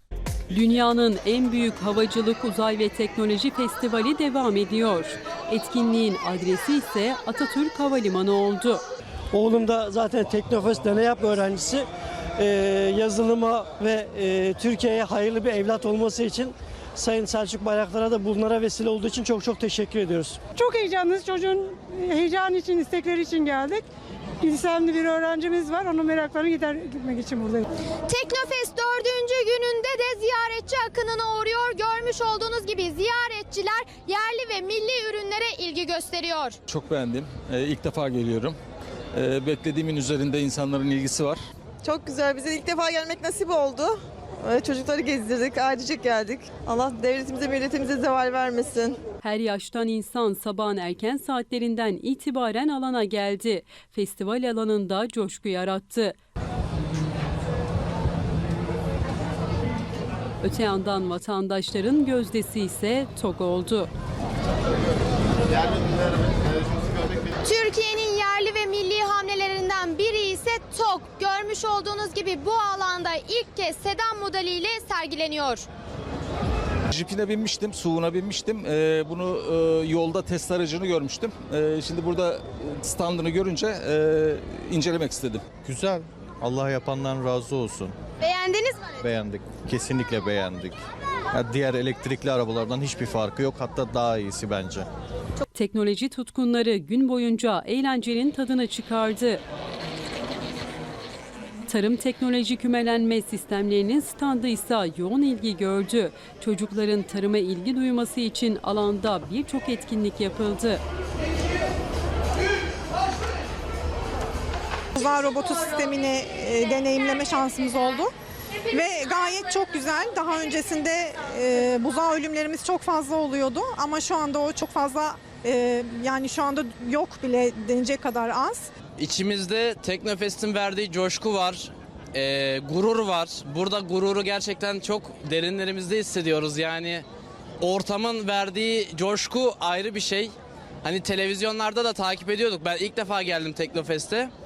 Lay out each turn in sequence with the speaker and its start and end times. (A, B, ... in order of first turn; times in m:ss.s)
0:00.5-0:08.8 A
0:09.3-0:11.9 B
0:12.4-0:20.4 B
0:20.6-0:23.9 C
0:24.4-0:27.7 C
0:28.1-0:36.6 D
0:36.7-0:38.6 E
0:39.2-0:41.4 E
0:41.8-0:49.0 F
0:49.2-0:56.2 A
1:00.4-1:03.9 A
1:07.4-1:15.7 D
1:17.0-1:25.4 E
1:25.6-1:27.9 G
1:28.2-1:29.0 D
1:29.0-1:30.8 G
1:31.3-1:34.9 G
1:35.5-1:39.4 A
1:41.7-1:50.8 A
1:55.0-1:58.1 H
1:58.7-2:08.7 H
2:09.0-2:17.0 I
2:17.6-2:24.3 I